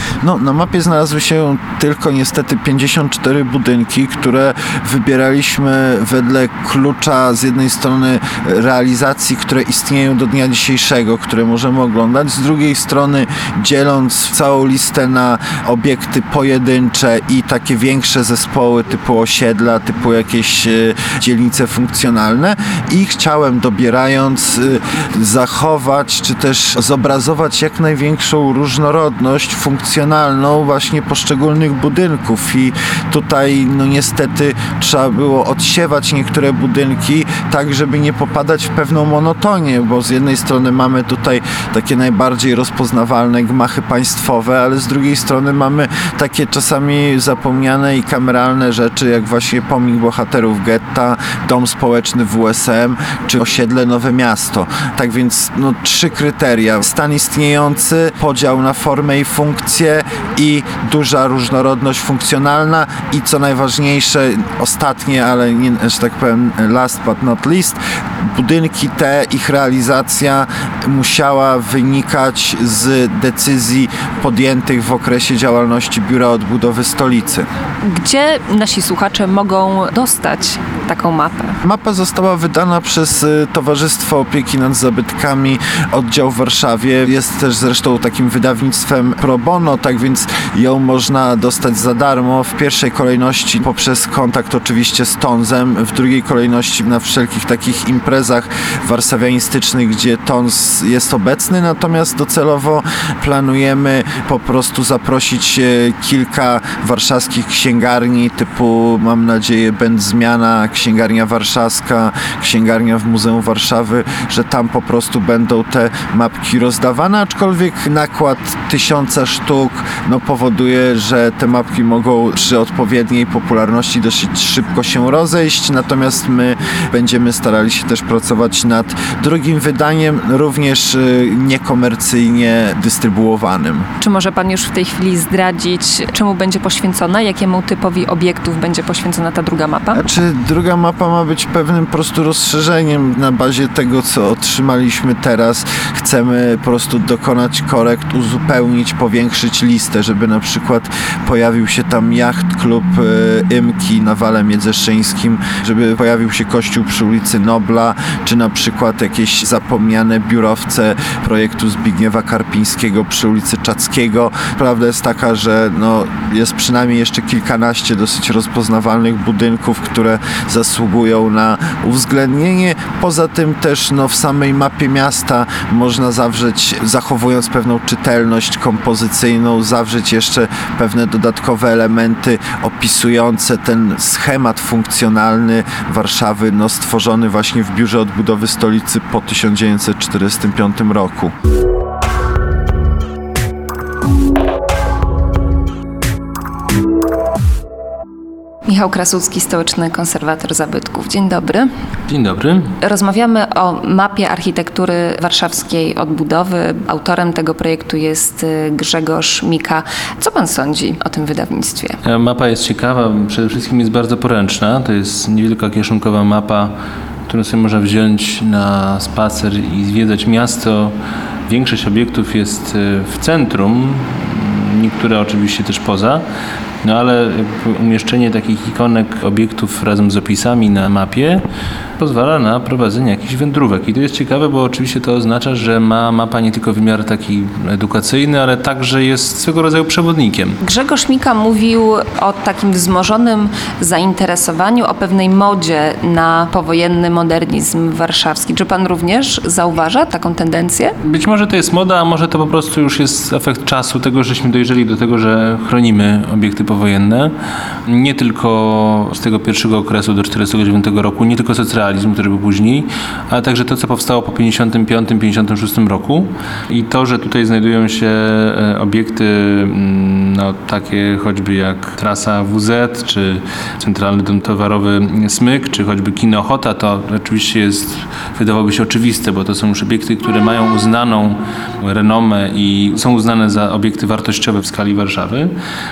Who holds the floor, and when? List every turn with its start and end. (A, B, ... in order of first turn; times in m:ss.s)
0:00.2-1:07.8 A
1:08.3-1:17.4 A
1:17.8-1:21.6 B
1:21.6-2:13.9 A
2:14.0-2:20.0 B
2:19.9-3:11.3 A
3:18.7-3:21.7 B
3:22.1-3:22.7 C
3:22.8-3:32.0 B
3:32.0-3:36.7 C
3:37.3-3:40.9 C
3:41.5-3:46.2 C
3:46.8-3:51.4 C
3:52.0-4:00.6 C
4:00.6-4:10.9 B
4:11.0-4:17.3 C
4:17.9-4:45.5 C